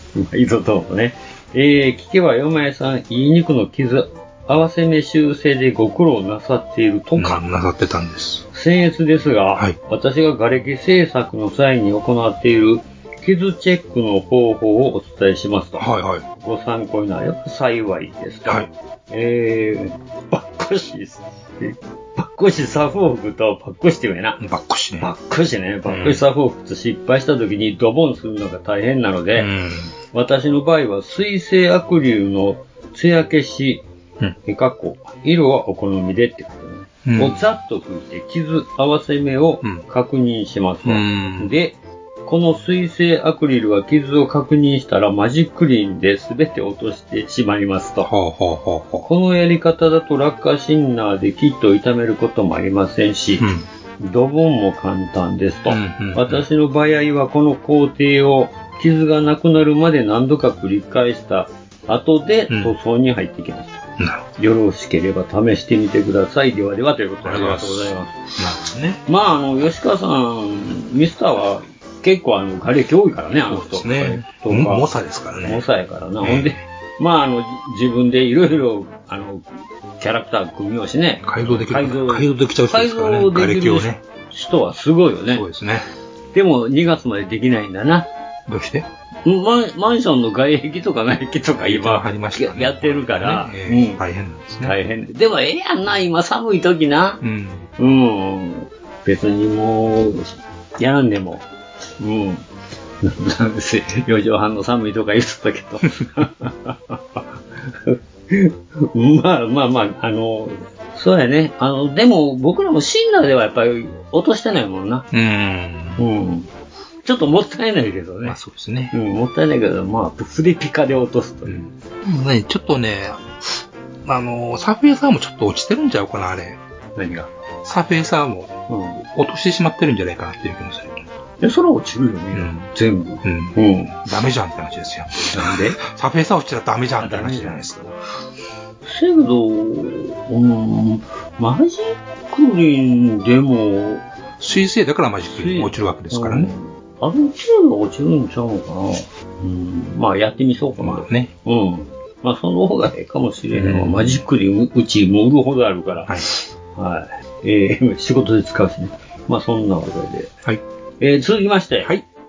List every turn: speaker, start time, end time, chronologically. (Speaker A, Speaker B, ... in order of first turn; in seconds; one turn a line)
Speaker A: 0.1-7.4
Speaker B: 7.2-8.5
Speaker A: 8.5-24.4
Speaker B: 15.8-16.2
Speaker B: 24.4-25.1
Speaker A: 25.0-29.5
Speaker B: 25.9-26.2
Speaker B: 29.4-29.9
Speaker A: 30.1-33.9
Speaker A: 34.5-48.1
Speaker B: 37.0-37.4
Speaker B: 40.9-41.5
Speaker B: 48.0-49.1
Speaker A: 49.1-53.5
Speaker B: 53.4-53.6
Speaker A: 54.0-63.8
Speaker B: 55.7-56.4
Speaker B: 64.0-64.3
Speaker A: 64.4-68.2
Speaker B: 67.2-69.0
Speaker A: 69.1-74.9
Speaker B: 73.4-75.6
Speaker A: 75.4-79.5
Speaker B: 76.2-76.6
Speaker A: 80.0-85.4
Speaker B: 81.2-84.0
Speaker B: 85.3-85.9
Speaker A: 86.3-88.1
Speaker B: 88.5-88.9
Speaker A: 89.2-94.0
Speaker B: 91.6-94.8
Speaker A: 94.6-97.2
Speaker B: 97.2-97.7
Speaker A: 97.8-101.4
Speaker A: 102.0-102.4
Speaker A: 103.0-115.1
Speaker B: 115.1-116.0
Speaker A: 116.0-116.5
Speaker A: 117.0-118.4
Speaker B: 118.2-119.0
Speaker A: 118.9-121.6
Speaker B: 121.5-126.6
Speaker A: 127.0-127.3
Speaker B: 127.6-131.1
Speaker A: 128.7-129.0
Speaker A: 131.4-134.0
Speaker B: 132.3-132.7
Speaker B: 133.2-137.9
Speaker A: 135.3-135.8
Speaker A: 137.0-137.7
Speaker A: 138.8-144.1
Speaker B: 144.4-146.5
Speaker A: 145.3-156.1
Speaker B: 150.8-151.3
Speaker B: 153.5-154.2
Speaker B: 156.1-156.3
Speaker A: 156.7-160.3
Speaker A: 161.0-161.9